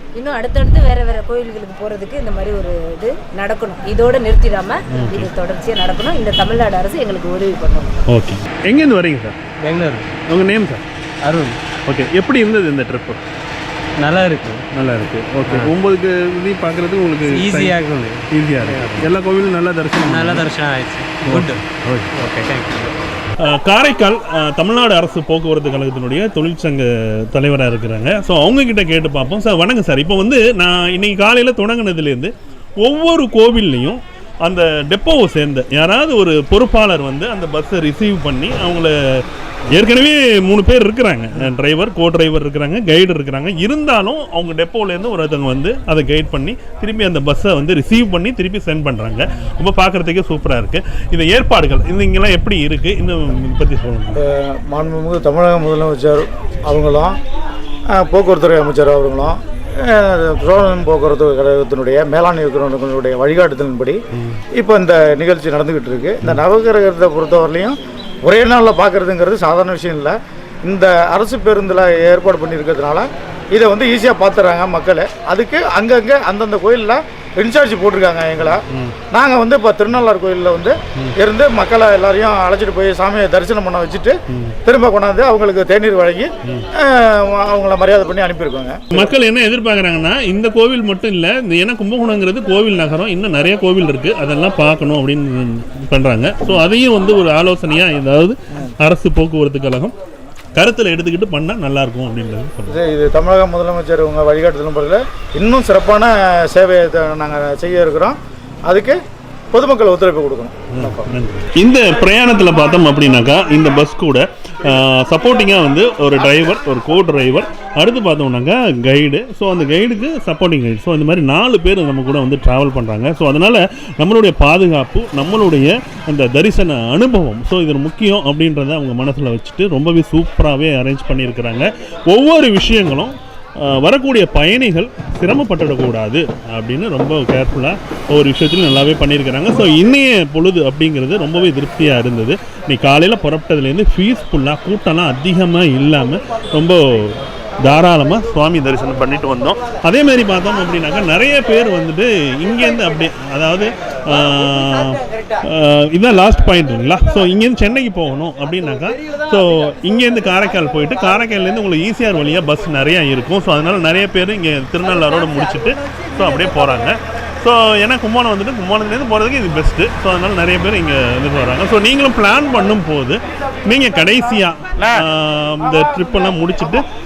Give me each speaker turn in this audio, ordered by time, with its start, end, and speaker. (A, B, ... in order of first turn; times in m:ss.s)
0:00.2-0:08.0 A
0:04.9-0:05.3 B
0:08.1-0:09.4 B
0:09.6-0:10.0 C
0:10.3-0:10.8 B
0:11.2-0:11.6 C
0:11.8-0:13.2 B
0:14.0-0:14.6 C
0:14.7-0:17.8 B
0:17.2-0:19.1 C
0:18.3-0:20.5 B
0:20.0-0:21.6 C
0:21.2-0:22.1 B
0:22.1-0:22.9 C
0:23.4-0:54.2 B
0:54.2-0:57.2 D
0:57.9-1:04.0 D
1:04.1-1:04.4 B
1:04.5-1:18.6 D
1:18.7-1:19.0 B
1:19.1-1:29.0 D
1:24.3-1:24.6 B
1:28.9-1:39.9 B
1:40.6-1:42.8 B
1:42.7-1:49.0 D
1:49.5-1:51.0 D
1:50.7-2:56.8 B